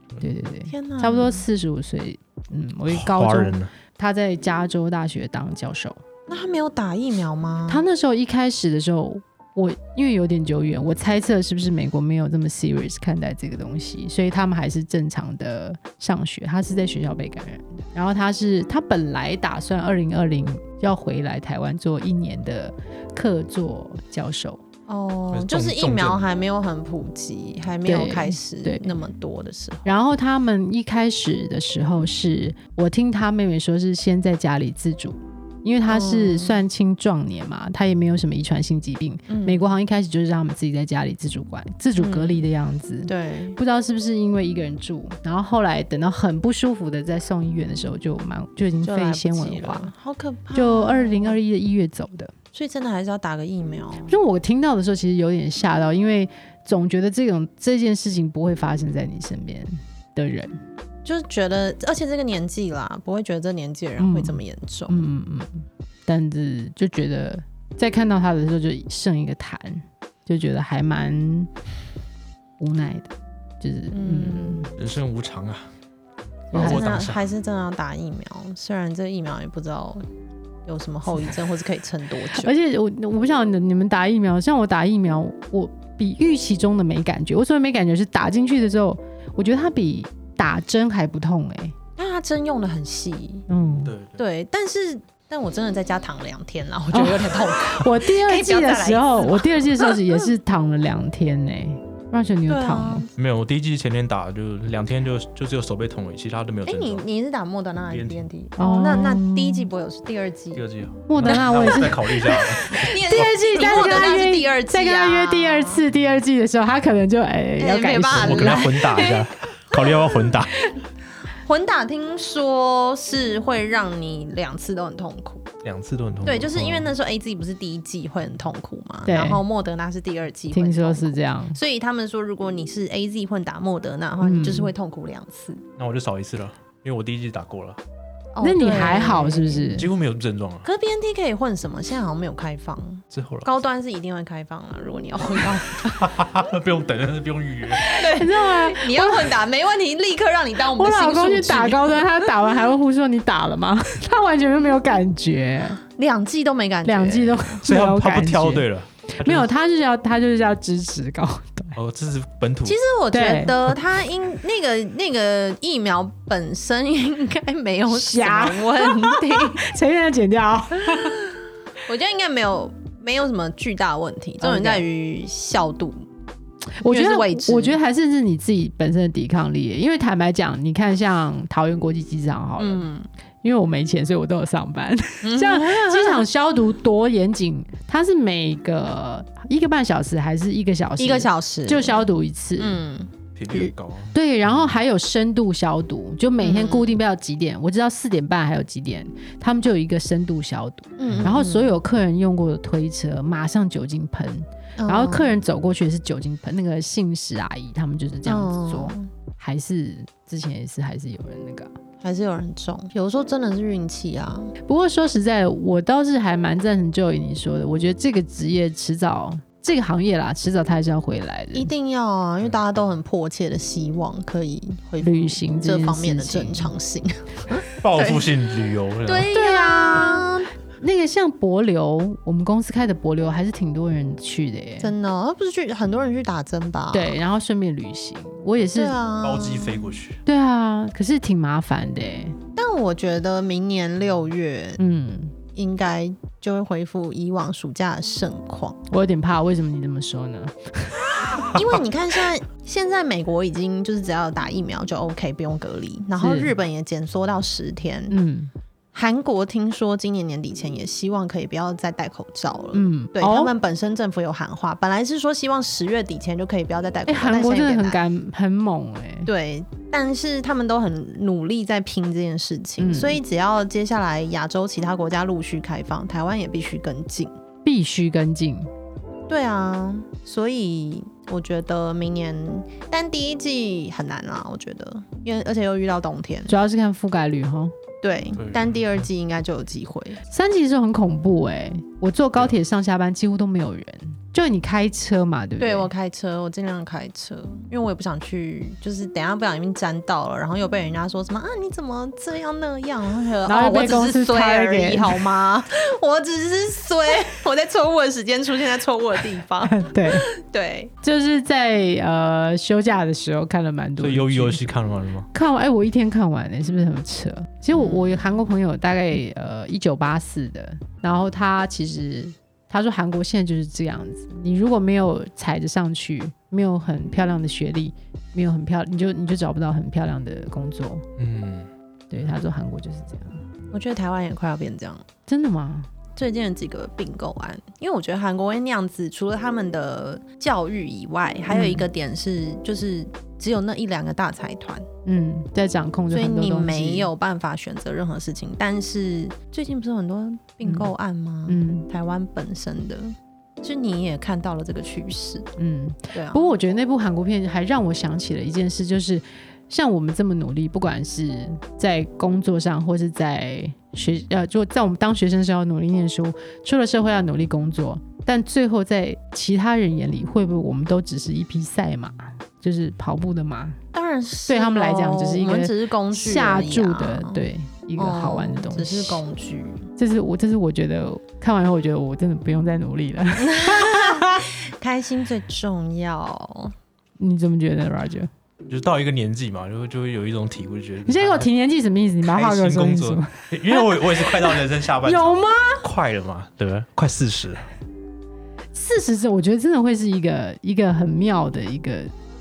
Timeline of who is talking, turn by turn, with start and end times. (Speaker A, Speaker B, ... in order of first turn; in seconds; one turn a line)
Speaker A: 0.2-6.0
Speaker B: 0.7-1.4
Speaker C: 2.9-3.7
Speaker B: 6.3-7.8
Speaker A: 7.7-24.6
Speaker B: 24.9-29.9
Speaker C: 25.3-26.2
Speaker A: 27.8-28.9
Speaker A: 29.9-49.9
Speaker B: 35.9-36.6
Speaker B: 39.3-39.7
Speaker B: 42.0-42.4
Speaker B: 43.0-43.6
Speaker B: 48.8-51.4
Speaker A: 50.5-52.3
Speaker B: 52.5-54.1
Speaker A: 54.1-60.6
Speaker B: 61.0-65.0
Speaker A: 64.0-71.5
Speaker A: 72.6-74.7
Speaker B: 73.9-74.7
Speaker C: 74.8-75.7
Speaker C: 76.5-77.3
Speaker A: 76.5-76.9
Speaker B: 76.5-80.0
Speaker B: 80.7-82.5
Speaker A: 82.3-91.7
Speaker B: 92.0-93.5
Speaker A: 93.5-93.9
Speaker C: 93.8-94.2
Speaker B: 94.2-100.3
Speaker A: 96.9-103.0
Speaker B: 102.5-103.1
Speaker C: 103.2-107.0
Speaker B: 106.7-110.7
Speaker C: 107.9-108.2
Speaker A: 108.6-109.7
Speaker C: 110.5-113.3
Speaker A: 111.1-118.8
Speaker B: 111.2-115.8
Speaker B: 117.6-119.3
Speaker C: 118.1-120.5
Speaker B: 121.4-125.5
Speaker C: 125.6-126.9
Speaker B: 126.2-135.6
Speaker A: 129.1-129.4
Speaker A: 130.5-131.6
Speaker A: 134.2-134.7
Speaker C: 135.8-137.8
Speaker B: 138.3-139.7
Speaker A: 138.4-139.9
Speaker C: 139.7-140.7
Speaker B: 140.6-145.9
Speaker C: 143.1-143.5
Speaker C: 145.8-147.8
Speaker A: 147.8-149.4
Speaker B: 147.9-152.3
Speaker A: 150.7-155.8
Speaker B: 155.9-157.6
Speaker A: 156.8-161.8
Speaker C: 157.6-159.5
Speaker C: 161.8-162.8
Speaker B: 162.6-169.6
Speaker A: 163.1-163.6
Speaker A: 167.9-171.2
Speaker B: 170.9-171.3
Speaker B: 171.8-176.0
Speaker A: 174.4-174.8
Speaker A: 176.8-182.8
Speaker B: 176.9-177.8
Speaker B: 182.6-183.1
Speaker A: 183.4-192.8
Speaker B: 185.2-186.2
Speaker B: 191.0-192.1
Speaker B: 192.6-193.7
Speaker C: 193.3-194.1
Speaker A: 194.1-211.7
Speaker B: 196.4-197.0
Speaker B: 201.0-201.7
Speaker B: 204.8-205.3
Speaker B: 208.2-209.1
Speaker B: 212.0-214.5
Speaker A: 214.6-221.7
Speaker B: 221.5-228.3
Speaker C: 222.4-222.8
Speaker A: 225.0-226.7
Speaker C: 227.8-229.3
Speaker B: 229.1-230.5
Speaker A: 229.3-230.3
Speaker A: 230.8-234.9
Speaker B: 234.8-237.2
Speaker A: 236.9-239.0
Speaker B: 238.7-239.9
Speaker C: 239.2-240.2
Speaker A: 240.2-242.4
Speaker B: 242.6-244.8
Speaker A: 244.8-245.3
Speaker B: 245.5-248.8
Speaker A: 248.9-251.1
Speaker B: 251.5-258.1
Speaker A: 256.2-256.5
Speaker A: 258.1-258.5
Speaker B: 258.9-268.0
Speaker A: 262.7-263.5
Speaker A: 267.1-269.3
Speaker B: 269.2-277.3
Speaker A: 272.8-273.2
Speaker A: 277.6-278.7
Speaker B: 279.3-286.5
Speaker A: 286.5-287.7
Speaker B: 288.0-290.2
Speaker C: 288.3-288.8
Speaker A: 290.3-295.9
Speaker B: 295.6-310.9
Speaker A: 303.5-305.2
Speaker A: 309.6-310.3
Speaker A: 311.0-314.6
Speaker C: 314.0-315.3
Speaker A: 315.3-331.0
Speaker B: 317.7-318.4
Speaker C: 331.2-331.7
Speaker A: 332.1-333.4
Speaker B: 333.7-335.0
Speaker A: 335.3-335.9
Speaker B: 336.1-344.9
Speaker A: 341.5-341.9
Speaker A: 345.1-347.1
Speaker B: 346.1-355.5
Speaker A: 350.6-350.9
Speaker A: 351.5-351.9
Speaker A: 355.6-373.8
Speaker B: 356.1-356.5
Speaker B: 373.9-377.4
Speaker A: 374.5-379.2
Speaker B: 378.0-379.9
Speaker A: 380.0-384.5
Speaker B: 383.4-386.7
Speaker A: 387.2-388.3
Speaker C: 388.6-391.5
Speaker A: 391.1-395.8
Speaker C: 392.2-397.7
Speaker A: 398.7-402.1